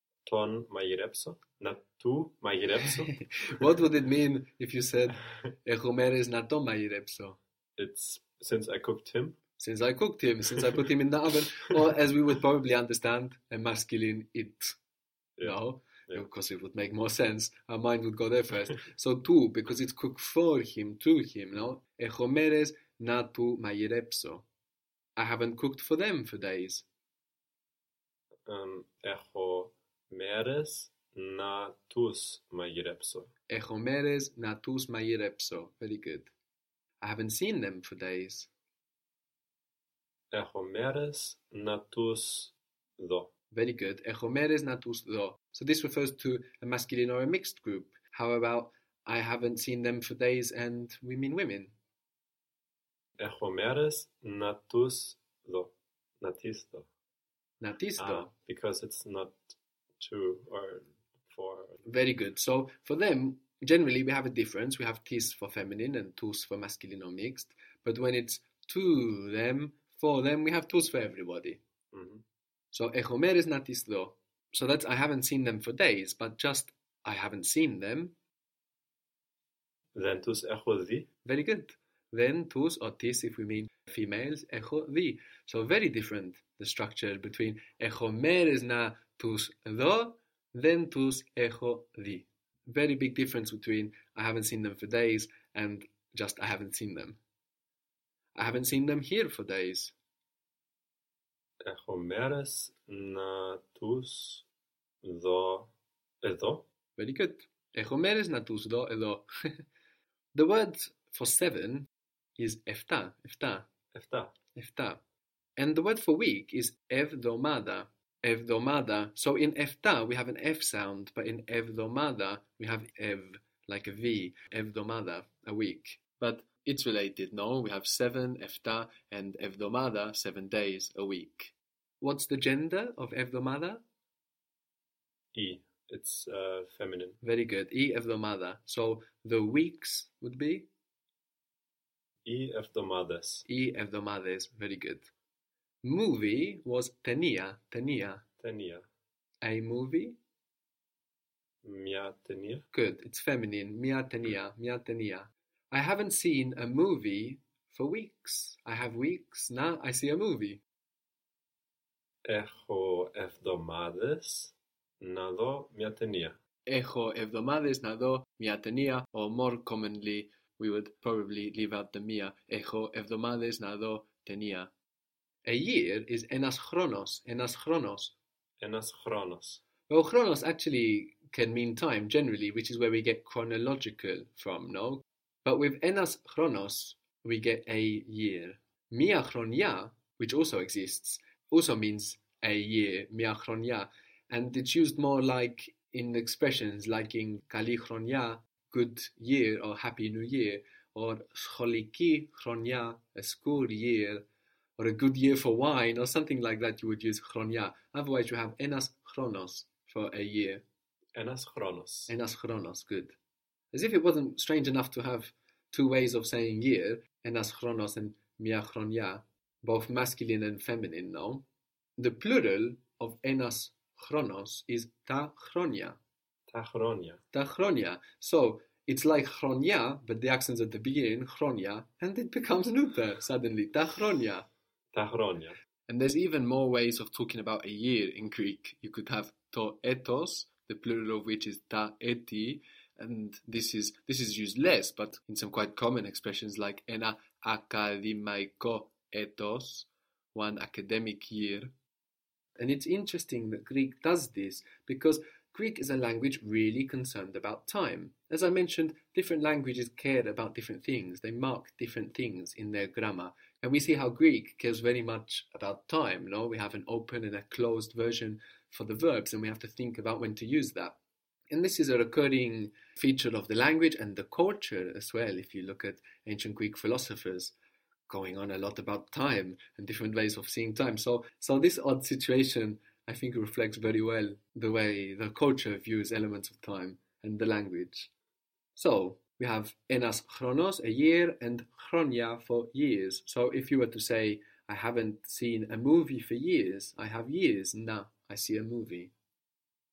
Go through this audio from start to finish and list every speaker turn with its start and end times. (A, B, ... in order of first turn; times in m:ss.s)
0:00.3-0:03.7 A
0:03.2-0:07.4 B
0:07.8-0:09.4 A
0:09.6-0:14.8 B
0:15.4-0:16.3 A
0:15.4-0:24.5 B
0:25.2-0:26.9 B
0:28.5-0:33.3 A
0:33.5-0:36.3 B
0:37.0-0:38.5 B
0:40.3-0:43.3 A
0:43.5-0:51.7 B
0:53.2-0:56.9 A
0:57.6-0:58.3 B
0:58.0-1:01.8 A
1:01.9-1:11.6 B
1:11.9-1:12.2 A
1:12.7-1:18.1 B
1:19.9-1:21.1 A
1:21.2-1:37.2 B
1:38.4-1:40.0 B
1:41.6-1:44.5 A
1:45.0-1:46.6 A
1:47.0-1:49.6 B
1:50.3-1:53.7 B
1:53.9-1:54.3 A
1:54.6-1:55.0 B
1:55.6-2:13.8 B
2:15.3-2:17.2 A
2:17.2-2:20.7 B
2:22.2-2:23.4 A
2:23.5-2:25.1 B
2:25.8-2:28.2 B
2:28.4-2:28.9 A
2:29.4-2:30.2 B
2:31.6-2:32.6 A
2:32.7-2:40.6 B
2:42.3-2:46.4 A
2:46.7-2:54.7 B
2:55.4-2:58.2 B
2:58.6-2:59.6 A
2:59.9-3:24.2 B
3:24.8-3:30.6 B
3:31.2-3:32.1 A
3:32.1-3:33.2 B
3:33.7-3:41.5 B
3:42.0-3:46.0 B
3:46.5-3:47.2 A
3:47.3-3:54.5 B
3:54.9-3:55.6 A
3:55.9-4:11.7 B
4:12.6-4:31.0 B
4:31.5-4:37.5 B
4:38.1-4:48.1 B
4:48.8-4:59.1 B